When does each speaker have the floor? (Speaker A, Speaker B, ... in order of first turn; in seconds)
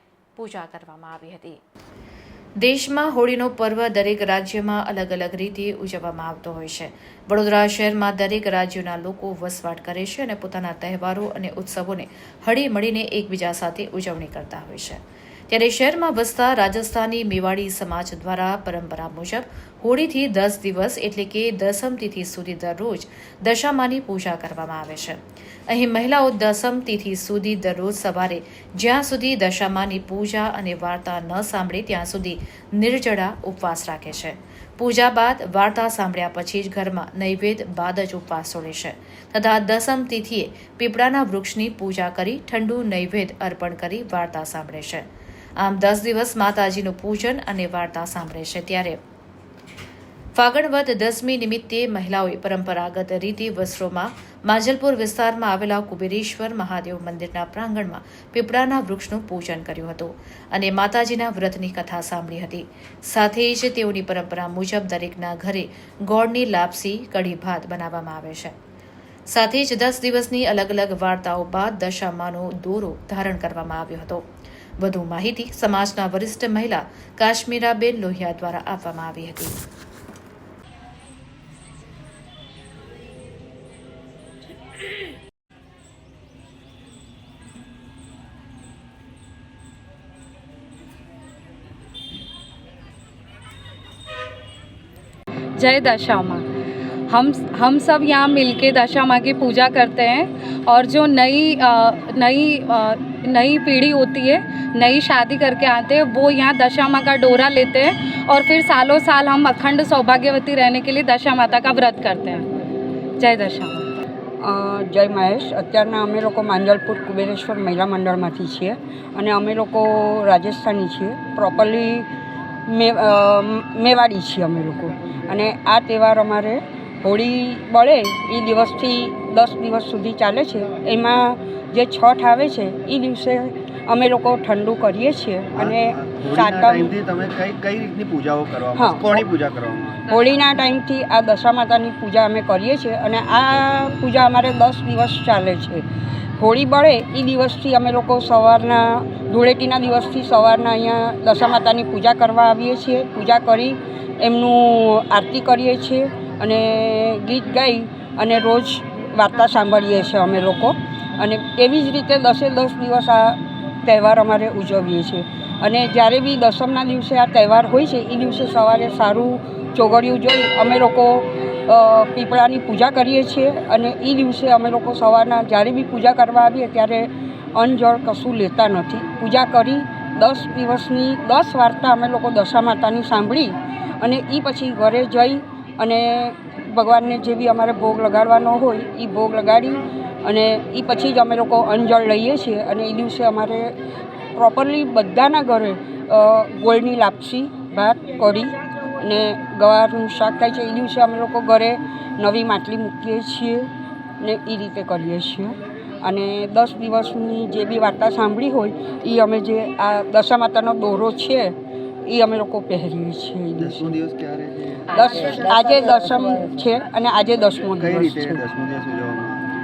Speaker A: 0.4-1.6, 2.6-25.2, 25.7-45.1, 45.6-49.0, 50.4-68.5, 69.3-74.2, 74.8-79.5
Speaker B: 95.6-96.5, 97.1-112.5, 113.2-113.9, 215.0-215.4
Speaker C: 114.4-122.1, 122.7-136.9, 138.8-139.2, 140.1-145.8, 146.4-193.7, 194.3-203.7, 204.2-211.5, 212.1-214.0, 214.9-218.4
Speaker D: 135.6-140.1, 213.6-215.1, 217.8-219.5